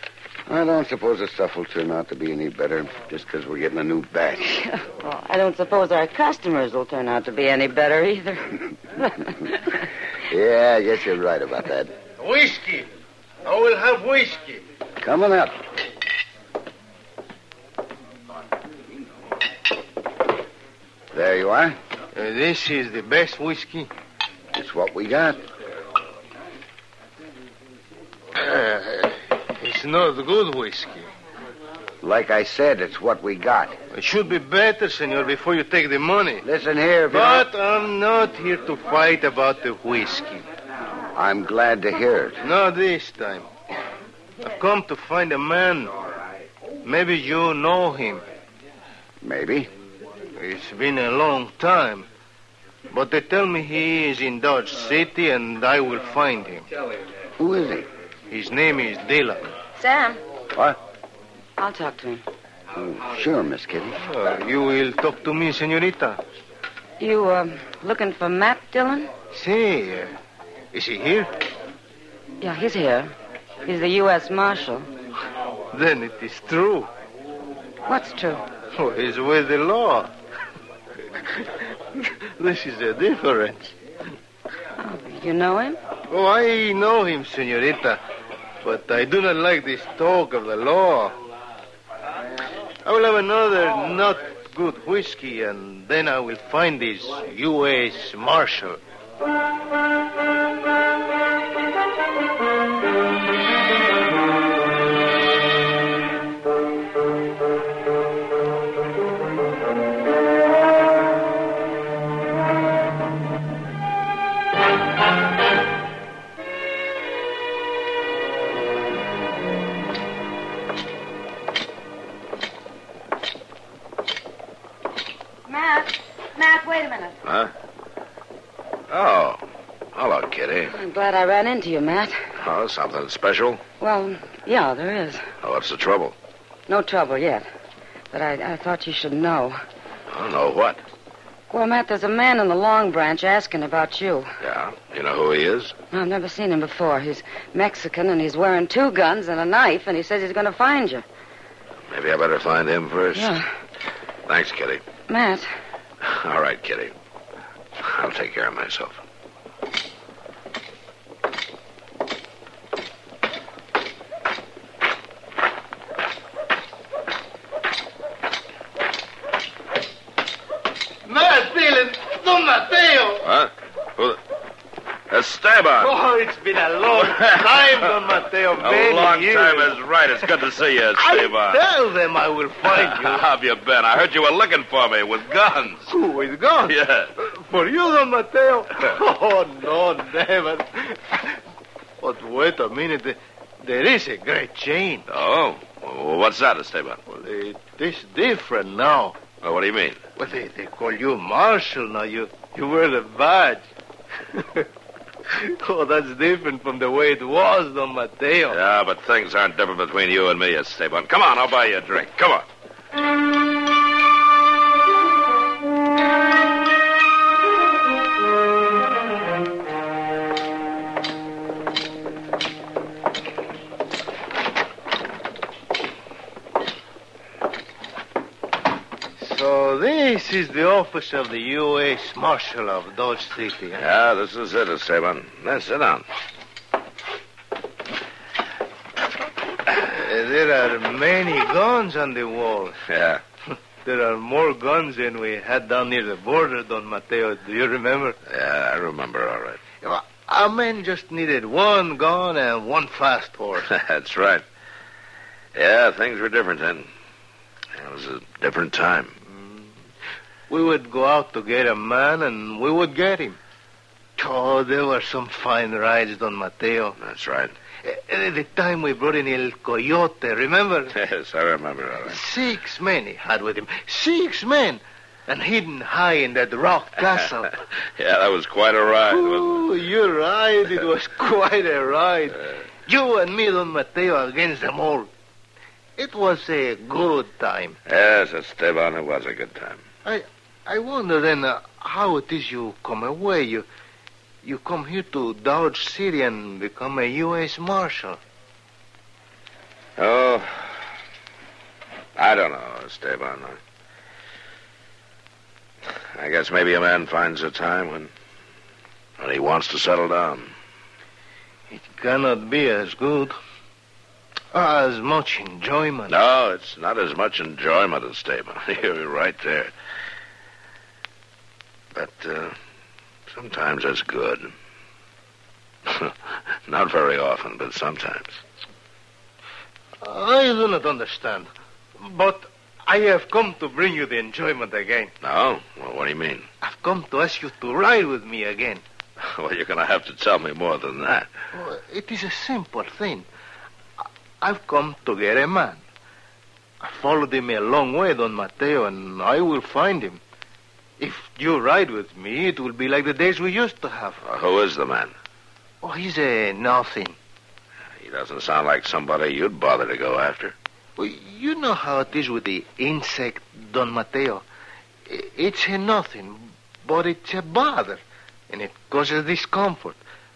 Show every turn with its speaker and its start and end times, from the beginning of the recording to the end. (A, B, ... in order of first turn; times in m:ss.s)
0:00.5-0:04.6 A
0:04.6-0:09.7 B
0:10.3-0:12.0 A
0:12.2-0:12.9 C
0:13.4-0:14.6 C
0:15.0-0:15.6 A
0:21.1-0:21.8 A
0:22.1-0:23.9 C
0:24.5-0:25.4 A
0:28.4-0:31.1 C
0:32.0-0:33.7 A
0:33.9-0:36.4 C
0:36.4-0:37.4 A
0:37.1-0:40.4 C
0:41.1-0:42.4 A
0:42.4-0:43.5 C
0:44.4-0:45.9 C
0:46.8-0:48.2 C
0:49.2-0:49.7 A
0:50.4-0:52.0 C
0:52.9-0:56.7 C
0:57.4-0:57.8 A
0:58.3-0:59.5 C
0:59.8-1:00.2 B
1:01.6-1:02.2 B
1:02.7-1:04.0 A
1:04.0-1:06.2 C
1:07.0-1:09.1 B
1:09.3-1:10.1 C
1:10.7-1:11.3 C
1:12.4-1:13.1 B
1:13.6-1:14.9 B
1:15.7-1:16.9 C
1:17.8-1:18.4 B
1:18.7-1:20.1 C
1:21.3-1:23.7 C
1:24.8-1:25.8 B
1:26.1-1:28.0 C
1:28.6-1:31.2 C
1:32.8-1:38.8 C
2:05.5-2:07.2 B
2:07.2-2:07.5 D
2:08.9-2:09.4 D
2:09.9-2:10.7 D
2:10.7-2:12.3 B
2:12.4-2:13.6 D
2:13.8-2:15.3 B
2:15.4-2:16.2 D
2:16.7-2:17.5 B
2:18.1-2:19.6 B
2:20.1-2:20.8 D
2:21.5-2:24.4 B
2:24.4-2:25.7 D
2:25.9-2:31.0 B
2:31.9-2:33.4 D
2:33.2-2:33.5 B
2:34.3-2:34.8 D
2:35.1-2:35.5 B
2:36.0-2:36.9 D
2:37.8-2:39.0 D
2:51.0-2:53.3 C
2:53.2-2:54.2 D
2:55.1-2:56.0 D
2:55.8-2:59.8 C
2:56.9-3:01.6 D
3:01.0-3:03.2 C
3:02.7-3:05.9 D
3:05.9-3:11.4 C
3:06.6-3:07.1 D
3:12.0-3:15.1 C
3:15.1-3:17.0 D
3:17.1-3:19.2 C
3:19.4-3:20.0 D
3:20.2-3:23.6 C
3:24.3-3:24.7 C
3:25.3-3:28.6 C
3:28.5-3:32.5 D
3:49.2-3:53.8 C
3:53.8-3:56.0 D
3:59.7-4:02.8 C
4:02.9-4:03.2 D
4:03.8-4:08.2 C
4:08.3-4:09.6 D
4:09.8-4:13.7 C
4:13.6-4:14.4 D
4:15.5-4:16.9 D
4:17.7-4:19.2 D
4:19.3-4:19.7 C
4:20.5-4:23.4 C
4:24.2-4:27.0 C
4:27.0-4:27.6 D
4:27.8-4:30.9 C
4:30.9-4:32.2 D
4:32.0-4:37.6 C
4:38.0-4:39.7 D
4:39.0-4:45.1 C
4:46.0-4:47.8 C
4:47.9-4:49.8 D
4:50.0-4:53.6 C
4:54.4-4:58.2 C
5:00.0-5:00.8 D
5:02.2-5:03.6 D
5:06.1-5:08.1 D
5:09.2-5:10.5 D
5:11.7-5:13.4 C
5:14.5-5:16.2 C
5:16.1-5:19.7 D
5:21.9-5:22.6 D
5:23.3-5:24.5 D
5:25.9-5:28.4 D
5:30.0-5:35.1 C
5:35.2-5:36.5 D
5:36.6-5:38.8 C
5:39.2-5:41.3 D
5:41.5-5:43.2 C
5:44.4-5:45.8 C
5:46.8-5:50.2 C
5:51.0-5:54.2 C
5:54.2-5:55.1 D
5:55.8-5:57.2 C
5:58.0-6:00.6 D
6:01.0-6:04.4 C
6:05.1-6:10.0 C